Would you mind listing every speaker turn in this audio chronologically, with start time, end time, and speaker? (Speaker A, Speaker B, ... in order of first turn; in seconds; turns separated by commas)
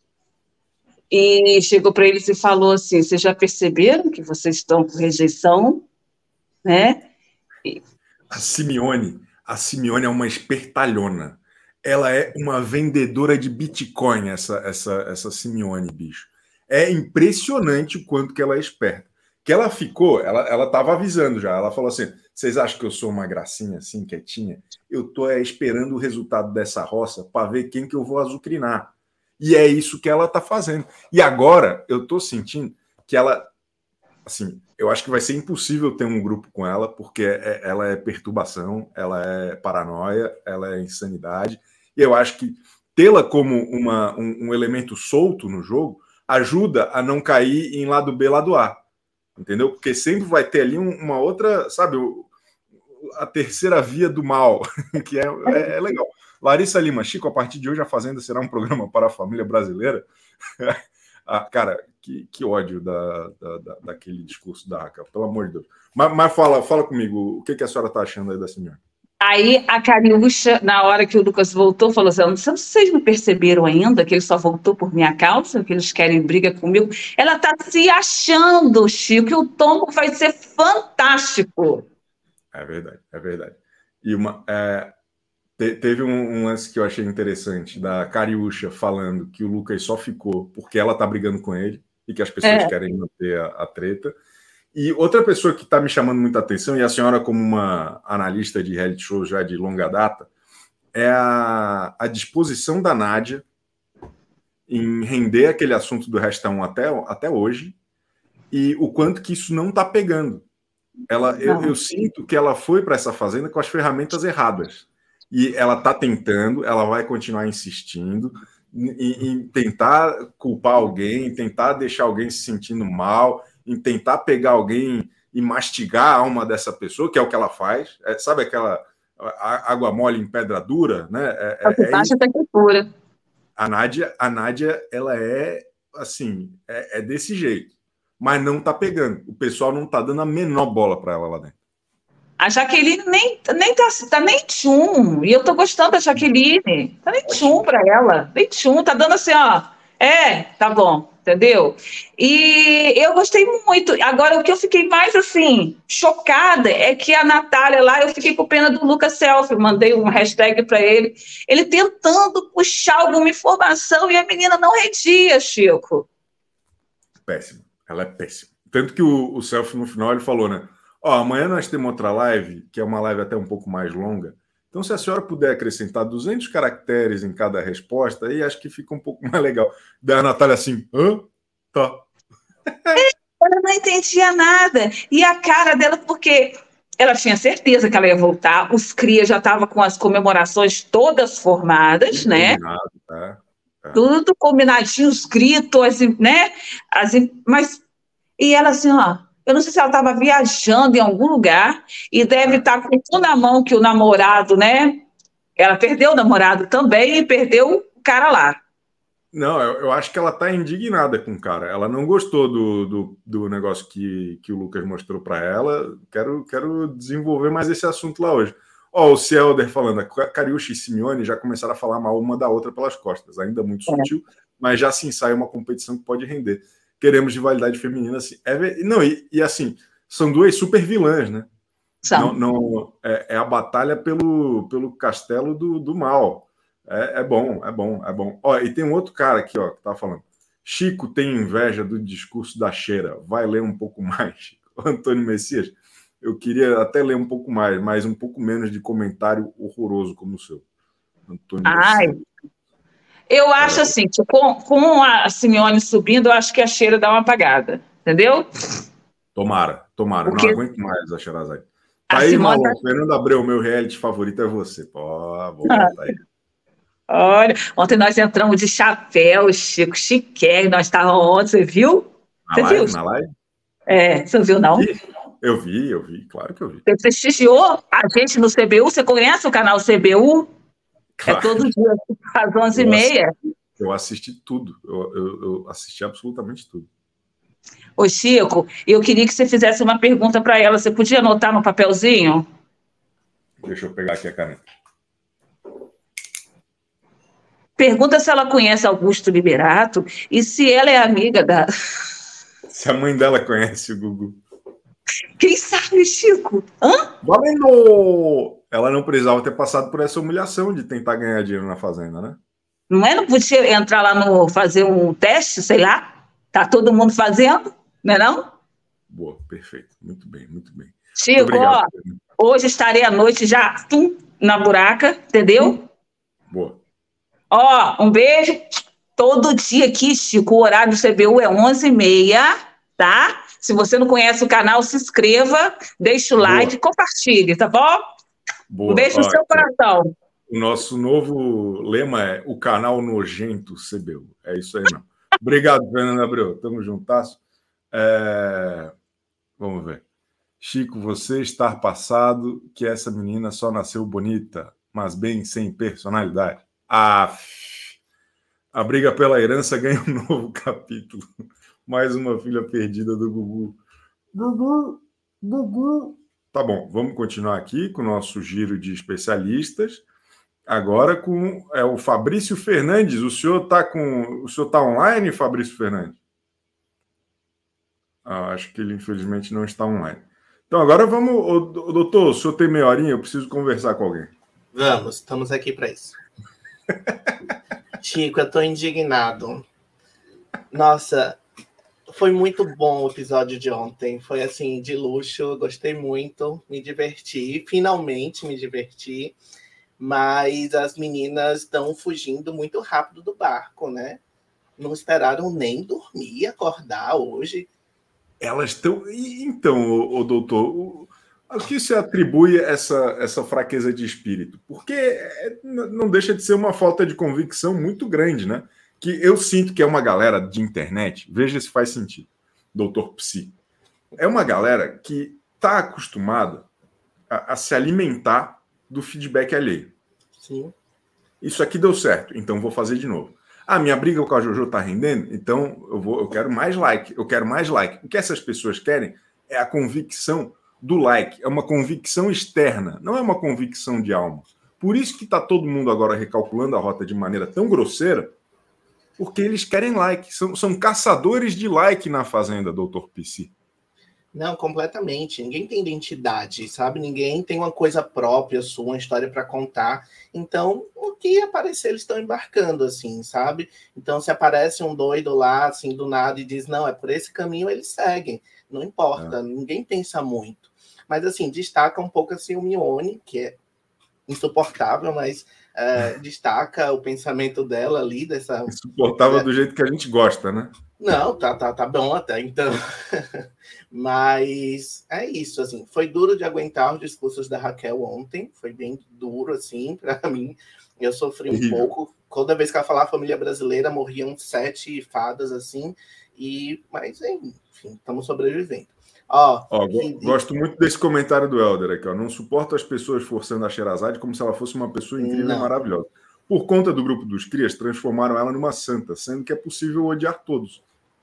Speaker A: 1.1-5.8, Speaker A: 6.7-7.0, Speaker B: 8.3-33.5, Speaker B: 34.2-48.8, Speaker B: 49.4-52.3, Speaker B: 53.0-60.1, Speaker B: 60.6-68.8, Speaker A: 69.2-81.8, Speaker B: 82.5-84.9, Speaker B: 85.6-94.2, Speaker A: 92.4-92.7, Speaker B: 94.7-100.3, Speaker B: 100.9-103.4, Speaker B: 104.7-107.8, Speaker B: 108.5-110.5, Speaker B: 111.1-132.1, Speaker A: 111.5-112.0, Speaker A: 131.7-132.9, Speaker B: 133.6-141.6, Speaker A: 142.4-166.1, Speaker B: 147.3-147.6, Speaker B: 167.2-182.1, Speaker B: 182.7-183.0, Speaker A: 182.9-192.6, Speaker B: 192.1-194.0, Speaker A: 193.9-197.8, Speaker A: 198.4-205.0, Speaker A: 205.6-208.6, Speaker B: 209.3-231.5, Speaker A: 232.1-232.4, Speaker B: 232.1-250.6, Speaker B: 251.3-252.2, Speaker A: 251.7-252.2, Speaker A: 253.3-258.5, Speaker B: 253.6-253.9, Speaker B: 259.4-266.2, Speaker A: 260.3-260.6, Speaker A: 262.1-262.8, Speaker A: 265.7-265.9, Speaker A: 267.1-273.0, Speaker B: 272.5-273.3, Speaker A: 273.9-274.9, Speaker B: 274.7-276.8, Speaker A: 276.9-280.5, Speaker B: 281.2-281.7, Speaker A: 281.3-283.3, Speaker B: 282.7-283.1, Speaker B: 283.8-286.9, Speaker A: 288.0-292.5, Speaker B: 293.6-294.6, Speaker A: 297.8-301.7, Speaker B: 302.7-304.4, Speaker A: 305.4-307.1, Speaker B: 307.2-312.4, Speaker A: 312.9-318.5, Speaker B: 319.1-322.2, Speaker A: 321.2-325.8, Speaker B: 326.5-326.8, Speaker A: 327.5-338.0, Speaker B: 336.4-336.7, Speaker B: 338.7-339.7, Speaker A: 338.9-340.1, Speaker B: 340.5-347.4, Speaker B: 347.9-348.9, Speaker B: 349.6-350.0, Speaker B: 350.6-358.0, Speaker B: 358.7-361.3, Speaker B: 361.9-363.8, Speaker B: 364.3-370.0, Speaker B: 370.7-376.2, Speaker B: 378.2-384.3, Speaker C: 384.7-386.2, Speaker C: 388.0-389.6, Speaker C: 390.7-391.4, Speaker C: 392.1-399.4, Speaker C: 400.0-404.2, Speaker C: 404.8-407.7, Speaker B: 408.4-423.6, Speaker B: 424.2-426.7, Speaker B: 427.3-429.9, Speaker C: 430.4-430.7, Speaker B: 431.4-448.3, Speaker B: 449.2-453.5, Speaker C: 454.3-473.6, Speaker C: 474.3-479.5, Speaker B: 478.7-480.8, Speaker C: 481.0-500.4, Speaker B: 491.5-491.9, Speaker B: 499.7-510.8, Speaker C: 505.2-505.7